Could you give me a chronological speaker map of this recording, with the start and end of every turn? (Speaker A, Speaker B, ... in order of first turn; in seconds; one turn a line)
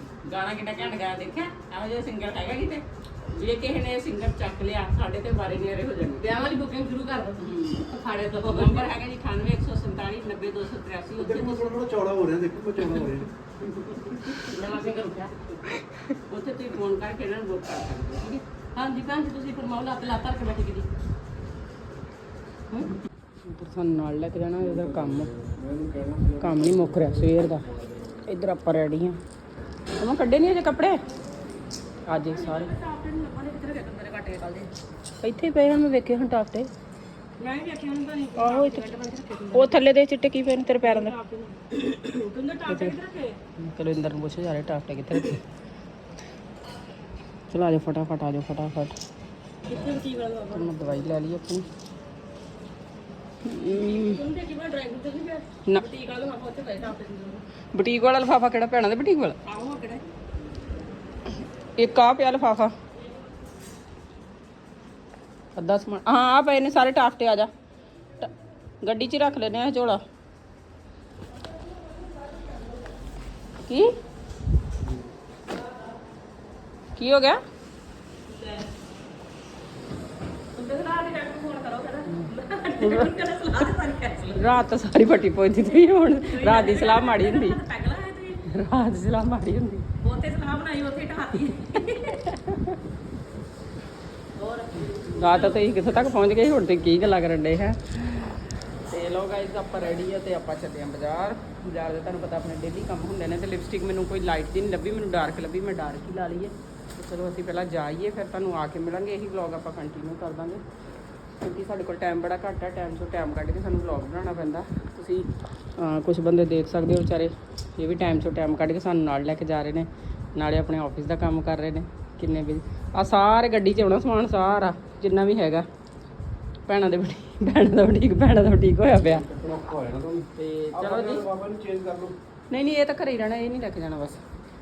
Speaker A: 0.2-6.3
Speaker B: 6.2-8.9
Speaker A: 7.4-7.9
Speaker A: 8.5-11.7
Speaker C: 11.2-13.3
Speaker A: 13.8-14.5
Speaker B: 14.5-15.3
Speaker A: 16.3-18.4
Speaker B: 18.8-20.9
Speaker A: 23.4-25.3
Speaker C: 24.6-28.2
Speaker A: 26.4-27.6
Speaker A: 28.3-29.2
Speaker A: 30.0-31.0
Speaker A: 32.1-32.7
Speaker B: 32.3-34.7
Speaker A: 35.2-36.7
Speaker B: 37.4-39.8
Speaker A: 38.4-38.9
Speaker A: 39.5-41.1
Speaker B: 40.8-43.4
Speaker A: 42.7-43.0
Speaker A: 43.6-45.4
Speaker A: 47.5-49.0
Speaker B: 49.6-51.2
Speaker A: 50.5-51.7
Speaker A: 53.5-54.2
Speaker B: 53.6-57.4
Speaker A: 57.7-59.4
Speaker B: 59.4-60.0
Speaker A: 61.8-62.7
Speaker A: 65.6-67.5
Speaker A: 68.8-70.0
Speaker A: 73.7-73.9
Speaker A: 77.0-77.4
Speaker B: 78.3-78.7
Speaker B: 80.5-84.5
Speaker A: 82.8-83.1
Speaker A: 84.4-87.6
Speaker B: 86.3-88.5
Speaker A: 88.5-89.9
Speaker B: 90.0-92.2
Speaker A: 92.3-92.8
Speaker B: 94.4-95.7
Speaker A: 95.1-98.3
Speaker A: 98.9-110.6
Speaker A: 111.4-125.7
Speaker A: 126.7-129.2
Speaker C: 129.0-132.2
Speaker A: 130.4-131.2
Speaker A: 132.5-134.2